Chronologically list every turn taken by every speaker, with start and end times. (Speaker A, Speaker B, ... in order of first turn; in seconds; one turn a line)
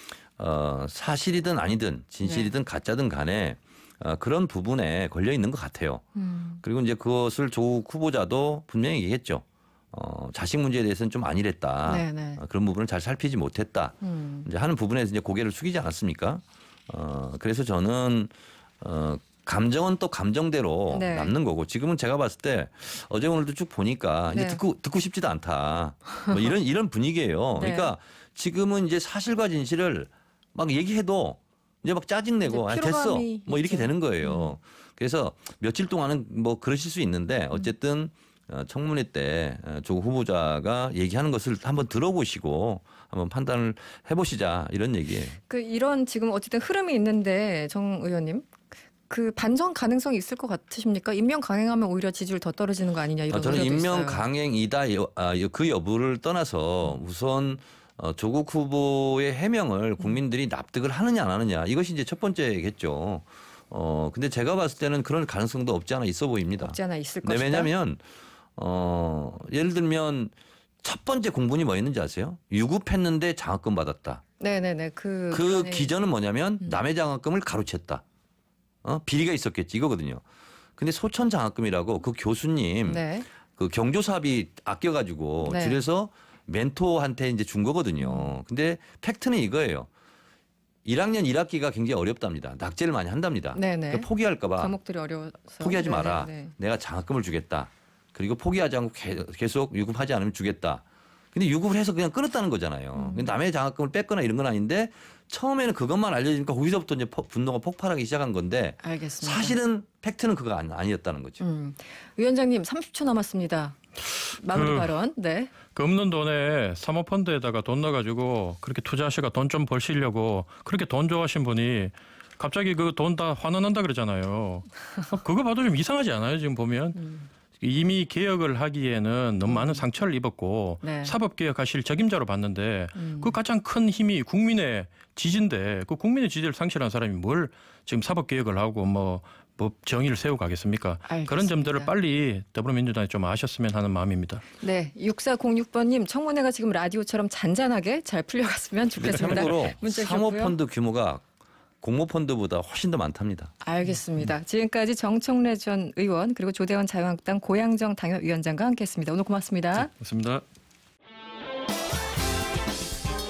Speaker A: 0.4-6.0
Speaker B: 2.2-2.5
Speaker B: 6.2-6.6
Speaker A: 6.6-45.4
Speaker B: 11.9-12.4
Speaker B: 14.0-14.5
Speaker B: 20.9-21.3
Speaker B: 24.3-24.6
Speaker B: 27.6-27.9
Speaker B: 32.5-34.6
Speaker B: 45.5-48.6
Speaker B: 49.1-54.2
Speaker A: 53.3-68.0
Speaker B: 66.6-67.7
Speaker A: 68.6-74.2
Speaker B: 74.4-75.9
Speaker A: 75.3-78.0
Speaker A: 78.8-80.2
Speaker A: 80.8-89.9
Speaker B: 82.9-83.3
Speaker B: 85.5-85.8
Speaker B: 88.0-88.3
Speaker A: 90.8-94.8
Speaker B: 93.5-96.5
Speaker A: 95.6-111.4
Speaker B: 103.0-103.3
Speaker B: 108.8-109.6
Speaker B: 111.4-113.8
Speaker B: 114.4-115.5
Speaker C: 114.5-114.9
Speaker C: 115.7-127.1
Speaker B: 127.0-127.3
Speaker C: 127.6-144.4
Speaker B: 129.5-129.8
Speaker B: 130.8-131.1
Speaker B: 133.0-133.3
Speaker B: 141.1-141.9
Speaker B: 144.6-150.6
Speaker A: 149.0-151.2
Speaker C: 149.1-149.4
Speaker A: 151.8-153.5
Speaker B: 153.6-159.9
Speaker C: 159.8-160.4